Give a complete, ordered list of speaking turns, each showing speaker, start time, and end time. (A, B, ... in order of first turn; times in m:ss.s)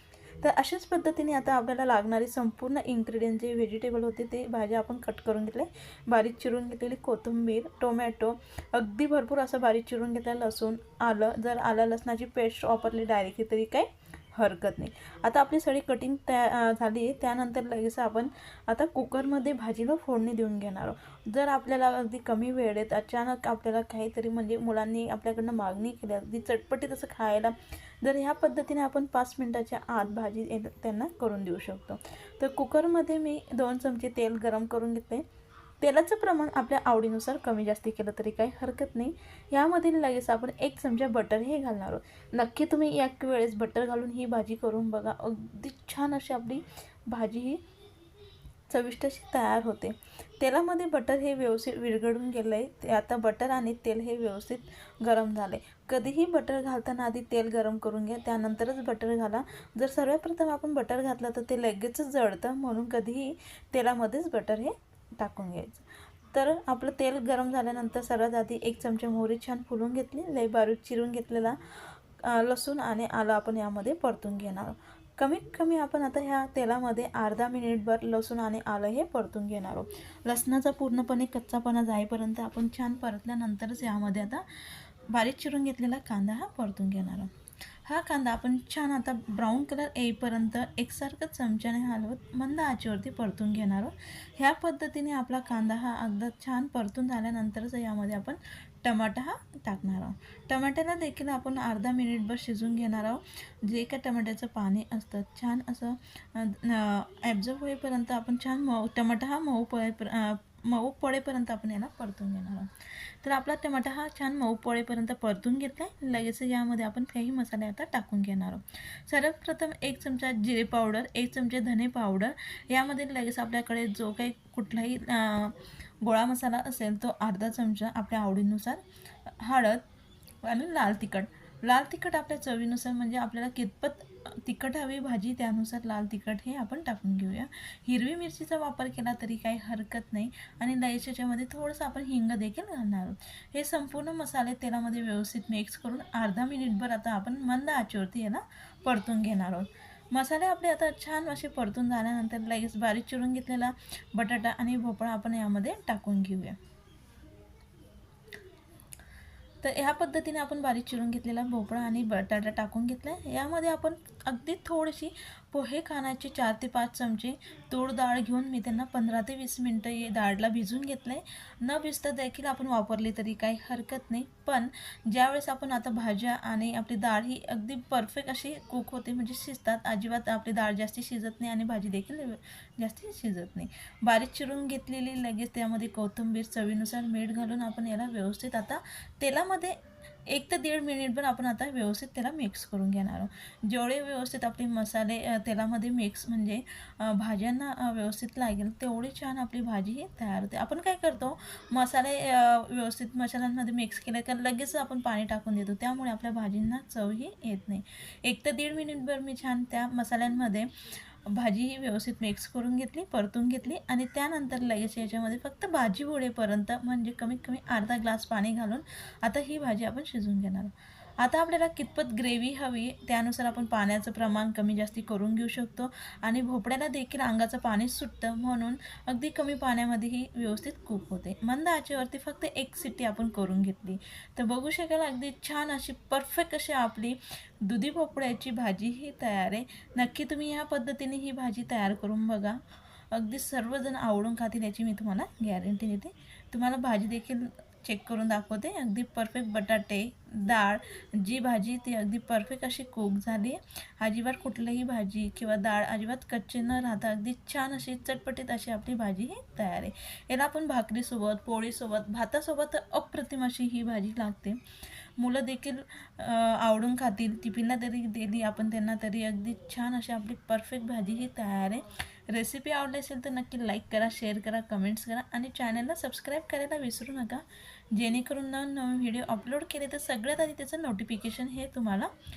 0:00.4-0:35.2 A
0:35.8-0:47.6 A
0:48.7-1:11.6 A
1:12.2-1:24.4 A
1:25.1-1:27.3 A
1:27.8-2:09.8 A
2:10.4-2:36.6 A
2:39.6-3:09.8 A
3:10.3-3:30.7 A
3:31.2-4:02.6 A
4:03.1-4:24.6 A
4:25.2-4:42.1 A